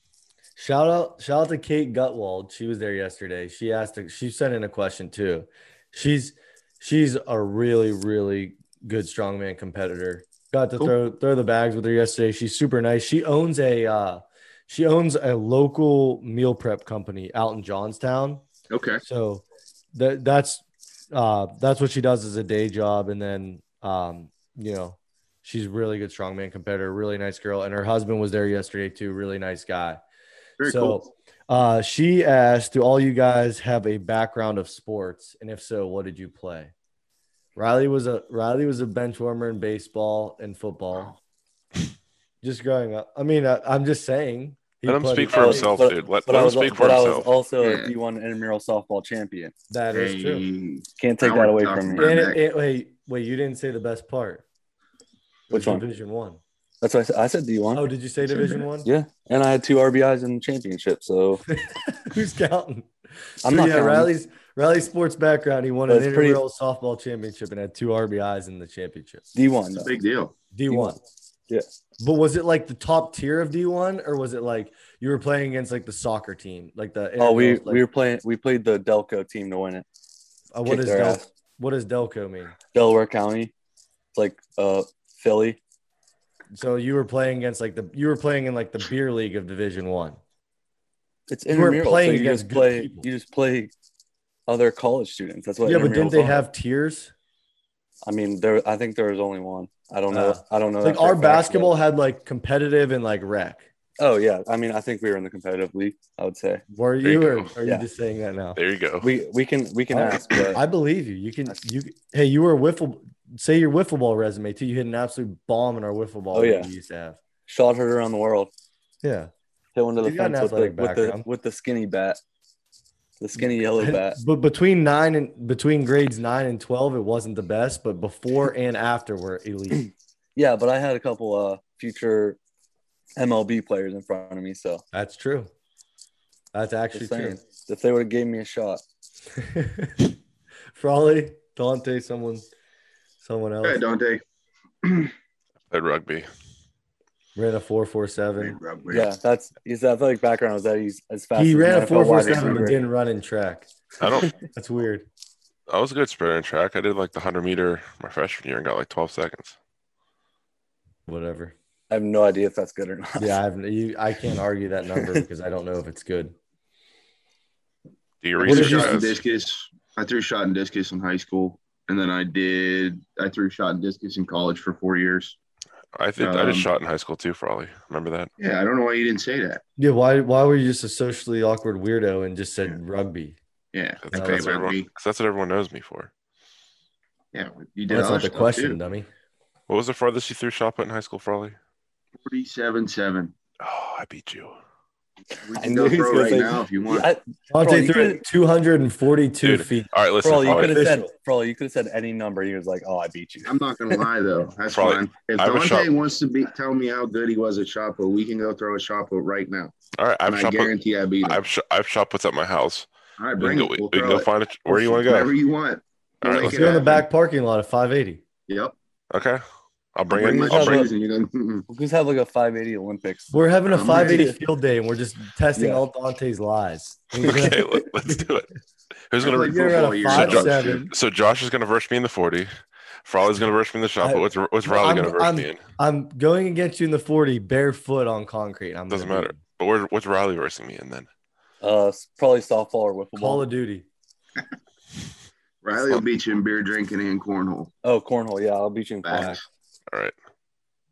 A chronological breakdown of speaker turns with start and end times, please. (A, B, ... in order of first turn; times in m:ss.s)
0:00.6-0:18.4 A
0:18.7-0:19.0 B
0:19.0-0:30.0 A
0:30.6-0:31.0 B
0:30.6-0:36.7 A
0:37.6-0:41.1 A
0:42.4-0:45.7 A
0:44.8-0:47.3 C
0:45.3-0:49.5 D
0:47.6-0:47.9 B
0:49.7-0:50.4 A
0:49.9-0:52.4 B
0:51.0-0:52.1 D
0:52.0-0:54.4 A
0:55.5-0:56.4 A
0:55.5-0:55.8 D
0:56.8-1:01.4 D
0:57.7-0:58.9 A
1:01.5-1:02.9 A
1:03.4-1:04.1 D
1:03.4-1:09.3 A
1:05.9-1:06.4 D
1:09.3-1:09.9 D
1:09.7-1:10.3 B
1:10.5-1:11.0 A
1:10.7-1:11.0 D
1:12.0-1:17.8 A
1:17.2-1:19.8 D
1:20.5-1:22.6 A
1:20.6-1:21.2 D
1:22.7-1:23.5 D
1:24.1-1:25.6 D
1:26.5-1:30.2 A
1:31.3-1:33.7 D
1:31.5-1:33.1 A
1:34.5-1:36.4 D
1:35.6-1:37.1 A
1:38.0-1:41.7 D
1:40.1-1:43.7 A
1:44.0-1:46.6 D
1:46.7-1:48.6 A
1:47.0-1:47.5 C
1:48.6-1:49.1 C
1:49.0-1:50.6 D
1:49.9-1:57.2 A
1:56.3-1:56.7 D
1:57.5-1:58.5 D
1:59.0-1:59.3 A
1:59.7-2:02.2 D
2:00.0-2:01.3 A
2:03.2-2:04.2 D
2:03.4-2:09.9 A
2:10.4-2:12.4 D
2:13.2-2:14.8 D
2:14.9-2:15.5 A
2:16.5-2:17.4 A
2:16.9-2:18.8 D
2:19.4-2:20.1 A
2:20.7-2:22.5 A
2:23.2-2:23.8 A
2:23.6-2:24.2 B
2:24.8-2:25.1 B
2:25.7-2:26.3 C
2:27.4-2:28.6 A
2:28.4-2:29.1 B
2:28.9-2:32.8 D
2:31.3-2:33.7 A
2:34.0-2:34.3 C
2:34.4-2:35.0 A
2:35.7-2:39.6 C
2:41.1-2:41.5 A
2:41.9-2:43.4 D
2:43.2-2:46.3 A
2:44.9-2:45.2 D
2:48.2-2:49.2 C
2:48.4-2:55.4 B
2:48.4-2:49.0 A
2:55.9-2:58.3 C
2:56.2-2:56.7 B
2:58.4-2:59.6 B
2:59.8-3:03.4 A
3:03.7-3:04.9 B
3:04.0-3:06.1 C
3:04.1-3:04.5 A
3:07.3-3:08.8 B
3:07.9-3:09.1 A
3:09.7-3:11.6 C
3:12.2-3:13.3 B
3:13.6-3:14.6 C
3:15.4-3:17.1 B
3:15.5-3:18.2 D
3:17.5-3:21.1 A
3:19.4-3:20.9 C
3:20.2-3:24.0 D
3:23.4-3:31.4 B
3:24.7-3:25.9 C
3:29.9-3:35.3 C
3:33.2-3:37.0 B
3:36.2-3:36.8 C
3:36.4-3:38.2 A
3:38.5-3:38.7 B
3:39.1-3:39.4 C
3:39.9-3:40.9 C
3:40.1-3:41.6 B
3:40.1-3:40.9 D
3:41.7-3:44.4 D
3:43.3-3:48.2 A
3:43.7-3:44.3 B
3:45.6-3:45.8 D
3:47.2-3:48.5 C
3:49.1-3:55.6 C
3:49.2-3:50.8 B
3:49.4-3:50.9 A
3:54.0-3:59.4 A
3:58.9-4:01.1 C
4:01.6-4:03.4 D
4:03.2-4:03.8 A
4:05.6-4:07.7 B
4:07.8-4:09.4 D
4:09.0-4:09.4 B